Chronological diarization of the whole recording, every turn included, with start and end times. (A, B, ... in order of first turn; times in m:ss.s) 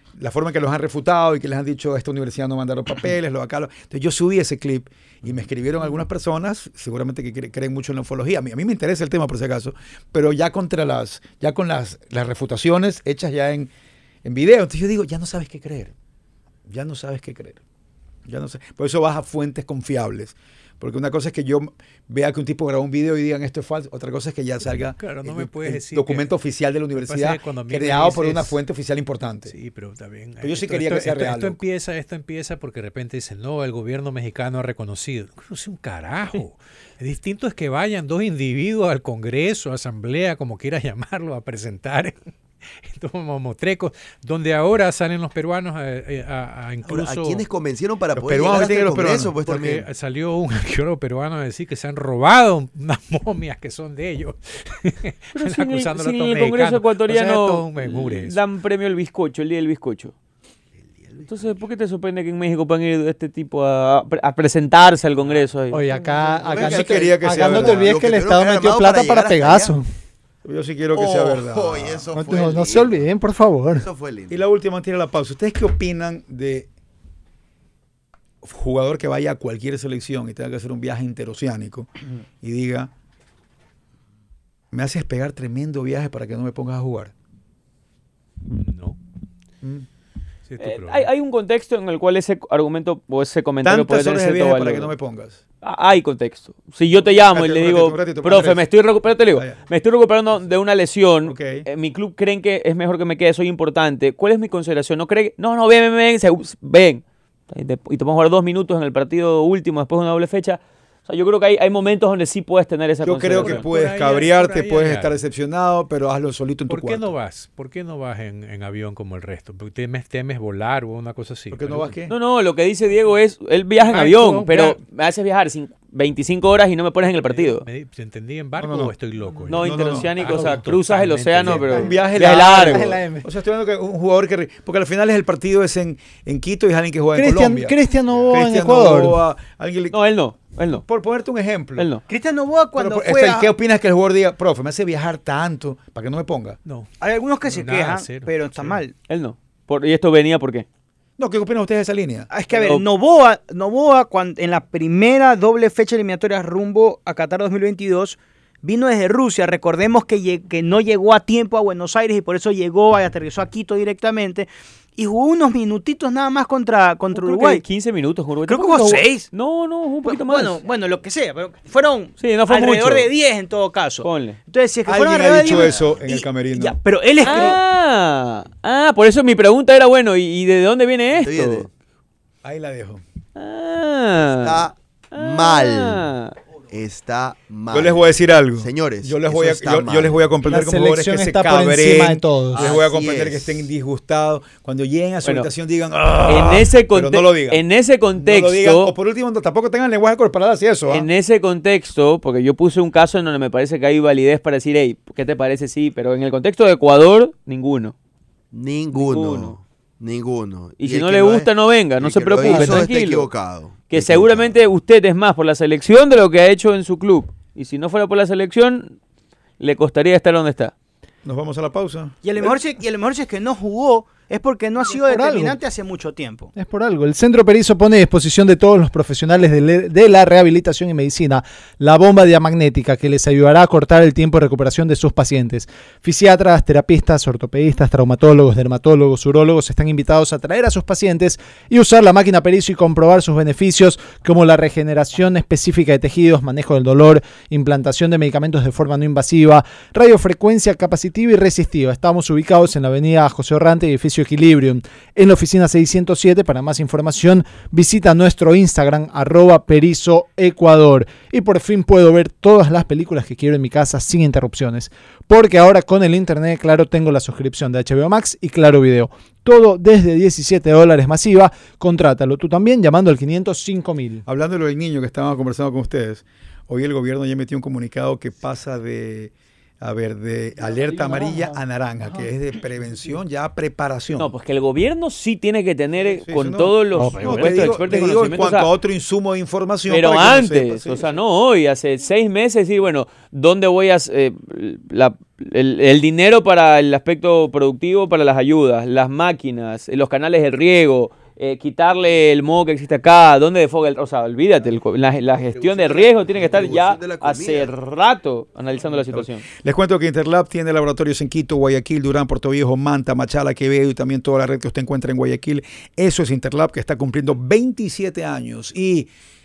0:00.2-0:13.7 A
0:14.2-0:15.9 A
0:16.6-0:17.6 A
0:18.2-0:29.5 A
0:24.8-0:26.3 B
0:26.9-0:28.6 B
0:29.5-0:42.2 B
0:30.4-0:31.6 A
0:42.8-0:47.4 B
0:46.8-0:49.9 C
0:48.1-0:49.3 A
0:49.3-0:58.4 B
0:55.4-1:00.1 D
1:00.9-1:01.3 C
1:01.2-1:05.8 D
1:05.7-1:09.9 E
1:06.0-1:09.8 C
1:06.5-1:07.9 A
1:10.4-1:12.0 A
1:10.9-1:13.0 C
1:12.1-1:13.8 E
1:13.7-1:14.4 C
1:14.3-1:16.7 A
1:18.4-1:21.9 A
1:22.4-1:22.9 A
1:24.7-1:27.1 A
1:28.5-1:29.0 B
1:30.5-1:31.1 B
1:30.6-1:34.9 D
1:33.6-1:35.4 A
1:35.6-1:53.6 D
1:37.0-1:38.7 A
1:39.3-1:39.6 A
1:41.2-1:41.6 A
1:53.0-1:57.1 A
1:53.4-1:55.1 B
1:56.7-2:01.9 B
2:01.5-2:02.1 A
2:02.1-2:07.6 D
2:03.8-2:04.8 B
2:07.2-2:12.0 B
2:08.6-2:08.9 A
2:09.5-2:12.9 D
2:09.6-2:10.2 A
2:11.7-2:13.2 E
2:11.7-2:17.7 A
2:17.1-2:19.2 E
2:18.1-2:18.3 B
2:18.3-2:20.0 A
2:19.9-2:20.8 D
2:20.9-2:21.9 A
2:21.8-2:22.0 D
2:22.1-2:23.5 F
2:22.8-2:26.6 A
2:26.6-2:26.9 B
2:27.0-2:28.9 F
2:27.4-2:28.8 B
2:29.1-2:30.6 D
2:31.2-2:32.3 A
2:32.3-2:47.6 F
2:32.5-2:32.8 D
2:47.1-2:50.6 D
2:48.5-2:49.3 F
2:50.0-2:57.6 F
2:52.2-2:53.1 D
2:54.0-2:54.4 D
2:54.8-2:56.8 A
2:55.5-2:56.0 C
2:57.2-3:01.6 D
3:01.1-3:01.7 C
3:02.4-3:03.0 A
3:03.4-3:06.3 D
3:04.2-3:06.1 C
3:06.7-3:10.3 C
3:07.7-3:17.6 A
3:10.5-3:12.7 E
3:12.5-3:13.6 C
3:15.2-3:15.5 D
3:16.2-3:18.9 D
3:18.2-3:21.1 A
3:20.9-3:27.9 D
3:28.5-3:34.6 C
3:28.9-3:29.6 D
3:30.8-3:33.3 D
3:32.4-3:32.8 E
3:33.9-3:39.0 D
3:39.6-3:40.7 D
3:41.2-3:42.2 A
3:42.2-3:46.5 F
3:45.0-3:45.6 E
3:46.6-4:34.2 E
4:34.2-4:44.3 A
4:40.9-4:42.3 E
4:44.2-4:48.7 D
4:46.0-4:51.1 A
4:47.0-4:47.7 E
4:49.9-5:09.4 D
5:05.5-5:07.7 C
5:09.1-5:19.1 A